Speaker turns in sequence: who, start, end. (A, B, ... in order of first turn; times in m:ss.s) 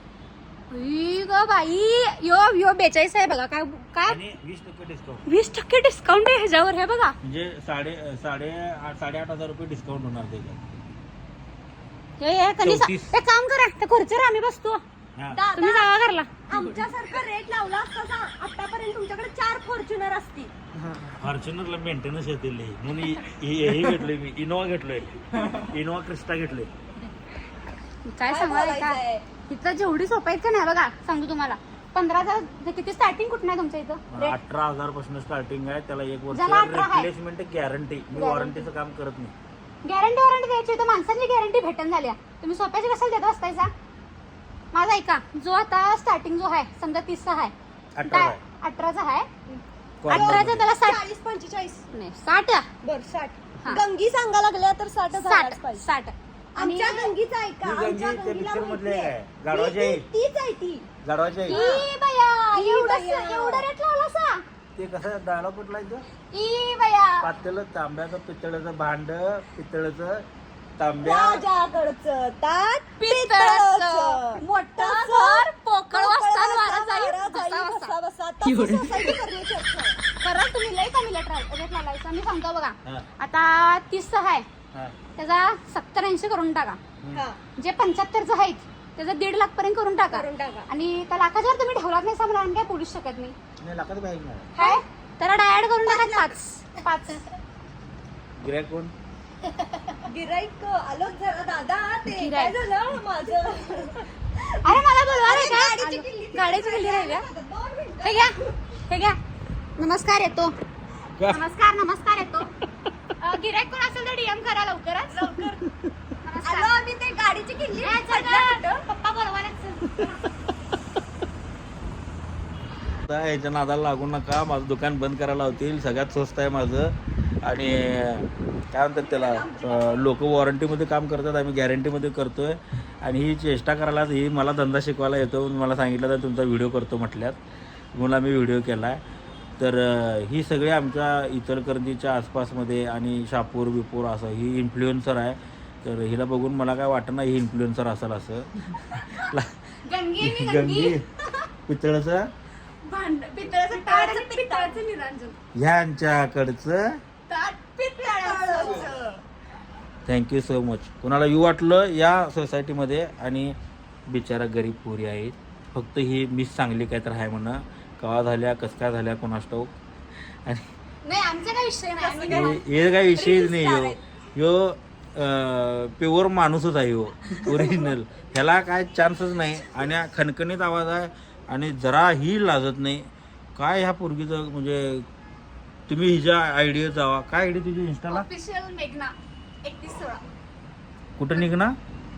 0:00.7-0:04.2 A
0:04.0-0:05.2 B
0:05.2-0:07.2 A
0:07.2-0:10.8 B
0:12.2-0:14.8 A
0:12.6-0:13.1 B
0:15.3-0:15.9 C
0:15.5-0:16.3 A
0:16.5-0:20.5 C
0:21.0-0:26.7 B
0:28.1-0:34.4 A
0:28.3-0:29.2 C
0:34.1-0:39.3 B
0:36.3-0:37.1 A
0:38.1-0:38.6 A
0:39.8-0:43.7 A
0:44.7-0:47.5 A
0:47.9-0:48.4 B
0:48.1-0:49.3 A
0:49.5-0:51.8 C
0:50.0-0:50.6 B
0:50.1-0:51.0 A
0:51.9-0:52.7 A
0:52.8-0:55.8 C
0:55.1-0:57.1 A
0:56.6-1:00.9 C
0:57.6-1:00.0 B
1:01.0-1:01.6 B
1:01.5-1:01.9 C
1:01.5-1:04.4 A
1:02.5-1:03.7 C
1:04.8-1:06.0 B
1:06.3-1:07.3 A
1:07.2-1:10.2 B
1:10.8-1:11.4 B
1:11.0-1:20.0 C
1:13.0-1:17.9 A
1:20.2-1:24.4 A
1:25.2-1:26.8 A
1:27.1-1:27.4 C
1:27.6-1:33.4 A
1:30.1-1:30.6 C
1:33.6-1:34.5 B
1:34.6-1:37.2 A
1:35.8-1:36.3 C
1:38.4-1:38.9 B
1:40.0-1:48.4 C
1:42.1-1:42.6 A
1:44.6-1:47.2 A
1:48.0-1:48.4 A
1:48.9-1:49.2 A
1:49.8-1:50.5 A
1:51.2-1:51.4 B
1:51.3-1:52.5 A
1:53.2-1:55.2 A
1:55.1-1:55.6 C
1:56.2-1:56.7 A
1:56.4-1:58.8 C
1:57.8-2:00.2 A
2:03.0-2:17.4 B
2:09.0-2:10.0 C
2:17.9-2:19.0 B
2:19.6-2:29.5 B
2:29.0-2:29.3 A
2:29.8-2:31.4 A
2:30.2-2:31.0 B
2:31.7-2:32.3 B
2:32.8-2:35.4 A
2:33.7-2:34.8 C
2:35.5-2:37.0 B
2:37.3-2:38.9 A
2:38.0-2:39.2 C
2:40.0-2:43.6 B
2:44.1-2:50.7 B
2:51.0-2:52.6 A
2:52.0-2:54.0 C
2:52.3-3:05.0 B
3:05.9-3:08.3 B
3:08.1-3:09.1 A
3:09.6-3:10.2 C
3:11.2-3:11.7 B